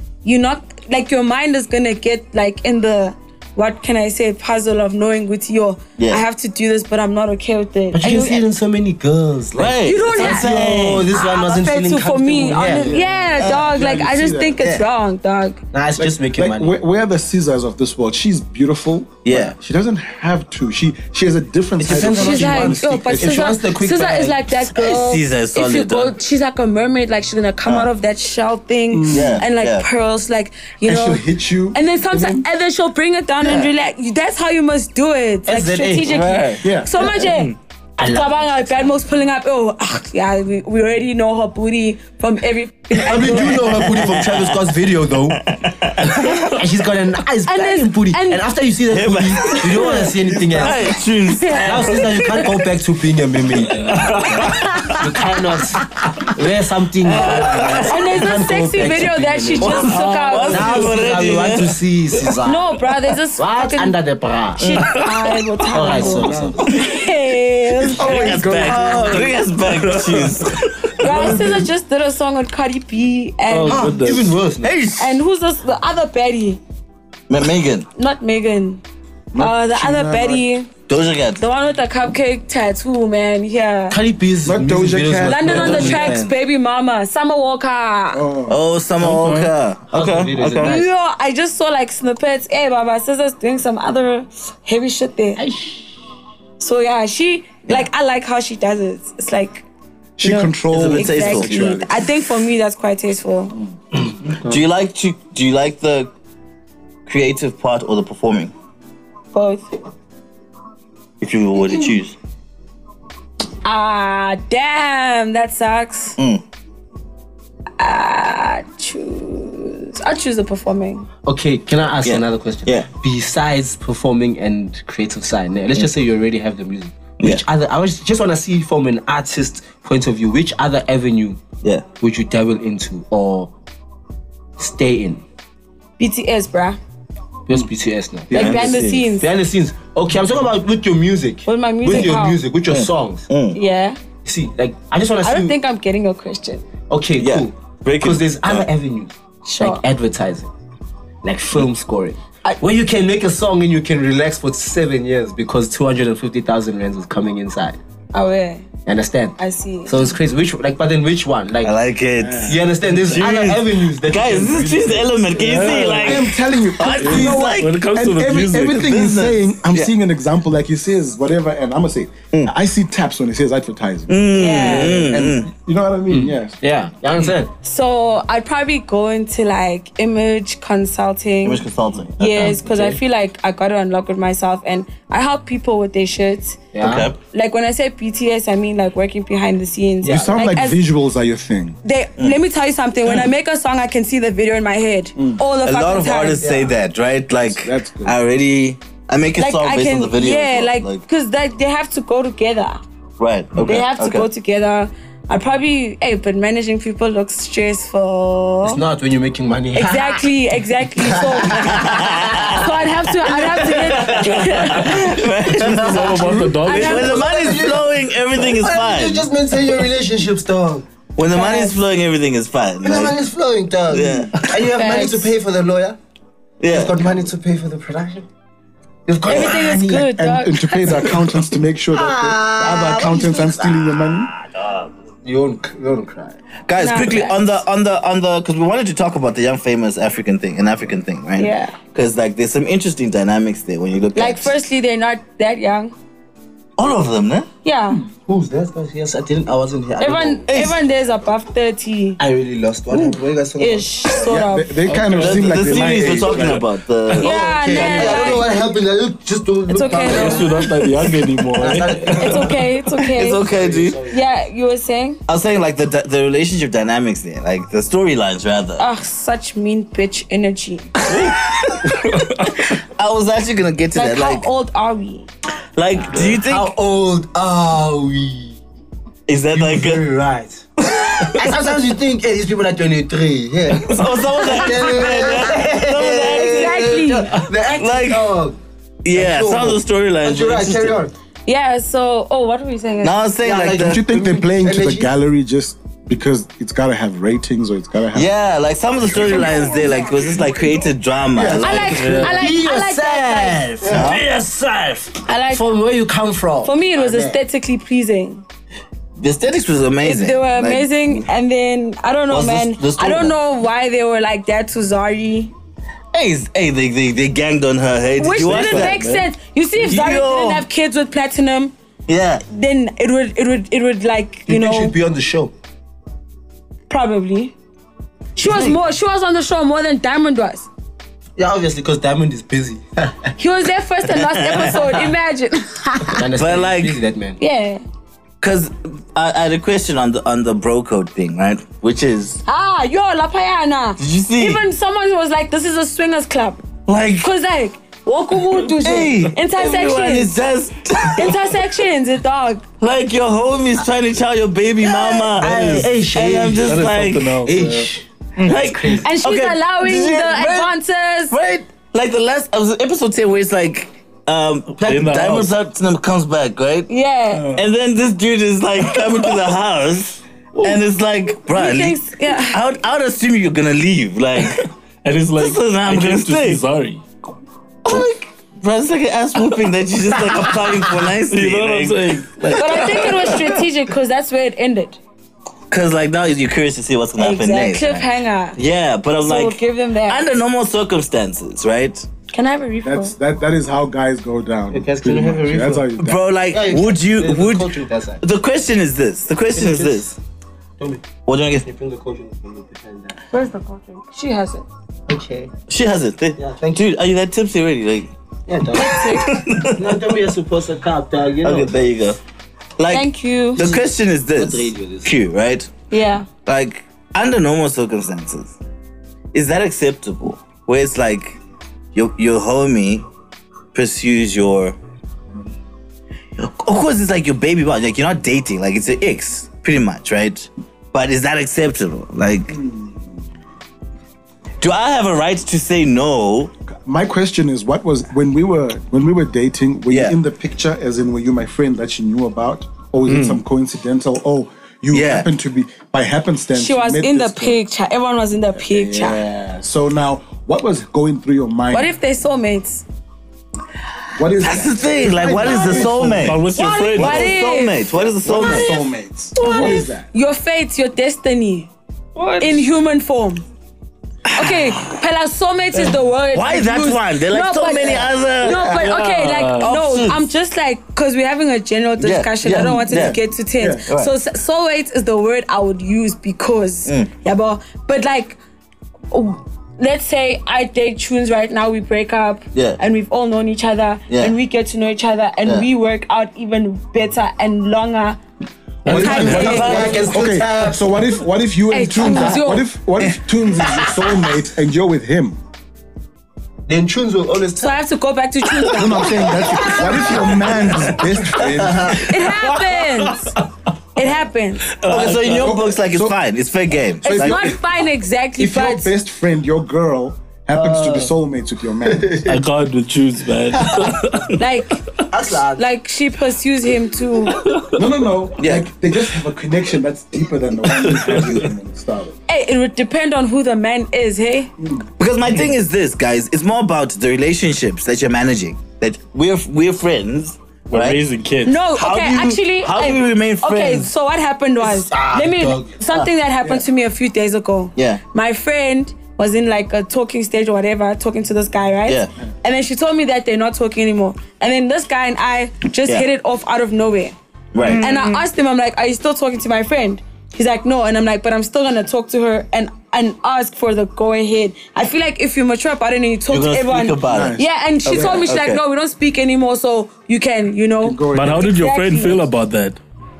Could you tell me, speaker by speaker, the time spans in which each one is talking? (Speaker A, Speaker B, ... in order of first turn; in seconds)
Speaker A: 0.2-8.4, 9.8-15.6, 21.9-43.9, 47.5-48.4, 49.4-52.3, 54.5-55.4, 57.1-61.1, 62.4-63.9, 64.6-69.3, 71.0-74.0, 75.0-76.6, 77.9-78.8, 79.3-80.7, 81.4-84.0, 85.2-88.2, 90.6-95.4, 96.6-99.6, 100.2-103.5, 109.3-109.7, 113.6-116.2, 117.8-121.1, 136.0-136.8, 138.3-139.3, 141.4-142.4, 143.5-144.0, 145.2-146.7, 149.4-149.8, 158.1-158.7, 159.4-160.1, 174.3-175.0, 177.6-181.6, 182.2-186.6, 187.3-190.8, 191.8-196.5, 199.4-202.8, 203.6-208.8, 209.7-215.2, 216.6-217.6, 221.3-221.8, 224.6-225.3, 229.2-231.2, 236.8-237.6, 241.4-241.8, 244.1-245.9, 247.6-248.0, 250.0-252.2, 253.6-254.8, 257.2-258.5, 259.7-260.6, 262.1-263.4, 264.1-265.2, 268.8-270.9, 273.9-275.3, 286.3-287.4, 291.4-293.2, 301.6-303.7, 305.2-305.7, 306.6-308.4, 310.0-315.5, 318.2-321.7, 322.5-324.9, 326.9-327.5, 328.4-330.7, 333.4-336.2, 337.4-337.8, 342.4-346.6, 347.2-350.4, 351.0-352.6, 354.9-355.3, 359.0-361.4, 366.9-367.6, 371.4-372.6, 382.6-385.0, 387.2-388.6, 389.2-390.3, 392.3-393.1, 403.3-404.6, 408.7-409.4, 412.9-413.6, 415.9-416.3, 446.5-449.2, 451.7-452.8, 456.6-457.8, 458.4-458.7, 459.4-461.7, 462.4-463.4, 464.3-478.4, 479.1-488.2, 488.9-490.0, 491.7-492.7, 497.6-500.3, 501.9-503.3, 503.9-504.6, 507.0-508.9, 514.4-514.8, 515.6-517.5, 522.3-524.5, 531.4-547.1, 547.8-562.2
Speaker B: 6.0-6.2, 9.5-11.1, 13.4-13.7, 14.6-14.8, 19.2-19.5, 24.7-26.1, 27.6-27.9, 29.1-29.9, 36.0-36.6, 43.6-44.7, 45.4-46.6, 48.9-52.5, 53.8-55.0, 57.1-58.0, 59.6-61.8, 67.9-71.5, 74.6-75.2, 77.3-77.9, 80.9-81.4, 88.5-90.8, 100.7-101.9, 104.4-106.1, 107.1-108.5, 111.2-112.2, 122.0-122.9, 138.3-139.1, 142.7-143.6, 147.2-148.7, 161.6-167.8, 168.7-169.9, 174.1-175.5, 181.4-182.6, 186.8-187.2, 195.6-201.0, 203.2-204.3, 211.6-219.3, 221.2-223.2, 223.9-224.4, 226.6-227.0, 236.7-244.5, 246.8-247.5, 250.5-250.8, 255.1-258.4, 263.1-264.0, 265.3-268.9, 271.0-274.5, 275.8-276.7, 279.3-280.0, 280.9-281.4, 283.8-287.0, 287.7-288.3, 289.0-291.0, 293.0-294.0, 298.1-302.2, 303.9-304.2, 309.2-311.2, 312.3-313.4, 316.1-319.0, 319.8-320.6, 322.1-322.4, 328.4-328.8, 334.1-335.0, 336.4-337.0, 338.4-342.4, 344.0-344.6, 346.9-347.3, 348.8-351.4, 352.8-357.5, 358.4-360.7, 361.3-366.9, 367.5-374.7, 375.4-376.6, 377.9-383.5, 385.7-392.0, 396.0-400.1, 401.2-401.6, 405.7-408.1, 408.8-409.9, 411.4-412.2, 412.8-415.7, 416.4-418.6, 419.3-421.4, 421.9-423.0, 423.7-424.8, 426.4-432.6, 434.6-436.5, 439.9-440.1, 444.9-445.3, 454.4-458.7, 464.3-465.0, 466.3-468.9, 469.5-470.2, 472.0-473.2, 473.9-474.1, 482.5-482.8, 489.3-490.0, 504.9-507.5, 518.4-518.7, 525.0-531.0, 531.7-533.9, 537.8-538.0, 547.5-547.9, 556.3-558.6
Speaker C: 7.9-13.0, 15.7-16.8, 21.8-24.6, 35.5-36.1, 38.0-38.8, 43.0-45.4, 46.5-51.0, 51.5-62.7, 63.4-64.8, 65.7-66.7, 73.7-74.7, 83.9-86.3, 89.9-90.9, 95.4-95.9, 121.2-131.4, 132.0-133.5, 134.6-135.2, 137.5-143.3, 144.2-145.6, 146.9-150.5, 151.2-157.8, 158.8-161.7, 162.4-165.4, 174.5-175.4, 176.1-177.5, 182.5-183.0, 186.7-187.1, 190.0-190.4, 196.4-196.7, 208.6-210.2, 211.0-212.5, 215.6-220.8, 222.8-226.0, 226.7-228.2, 229.1-230.1, 231.9-236.4, 248.2-250.8, 252.2-253.9, 256.0-256.6, 257.2-260.7, 261.5-262.6, 263.4-264.2, 276.0-278.6, 279.5-288.6, 289.1-291.1, 293.4-295.1, 302.2-307.4, 324.5-325.5, 331.4-333.3, 336.1-337.4, 355.4-356.9, 357.4-359.1, 364.8-365.1, 394.7-395.9, 396.5-398.2, 399.5-400.2, 400.8-401.0, 401.6-403.2, 405.1-405.5, 406.4-406.8, 408.5-411.8, 413.6-415.1, 456.6-457.0, 488.9-490.8, 496.7-497.8, 501.6-501.9, 515.1-515.6, 534.6-536.0
Speaker D: 12.5-14.6, 16.0-23.4, 28.9-29.4, 30.9-32.4, 36.6-37.0, 65.9-66.9, 67.7-69.4, 71.0-71.7, 79.3-80.5, 84.5-86.1, 88.1-88.6, 100.2-102.1, 162.2-162.6, 166.0-176.6, 190.1-191.8, 197.4-198.2, 229.9-234.3, 254.1-256.6, 293.7-298.3, 301.3-302.3, 303.8-304.1, 392.8-396.2, 432.5-433.0, 436.8-447.6, 448.6-451.9, 454.1-456.4, 458.2-460.1, 468.5-468.8, 472.5-473.9, 488.9-495.4, 498.7-502.0, 505.2-506.2, 507.0-507.6, 508.4-512.3, 517.7-522.1, 557.1-558.2, 560.8-561.5
Speaker E: 53.8-54.7, 64.8-65.3, 69.7-70.5, 73.5-74.3, 89.0-89.5, 165.4-166.3, 166.9-168.9, 215.6-217.2, 254.8-256.4, 260.0-262.5, 272.0-272.6, 301.8-302.4, 318.4-319.2, 356.6-358.6, 364.8-365.5, 374.4-377.0, 381.2-383.3, 443.1-443.4, 455.8-457.4, 462.2-462.5, 468.6-469.7, 488.8-490.0, 500.5-501.0, 501.9-503.5, 504.7-505.6, 510.5-511.1, 512.2-514.4, 517.3-517.8, 520.7-521.5, 530.7-531.6, 547.7-548.1, 561.1-562.8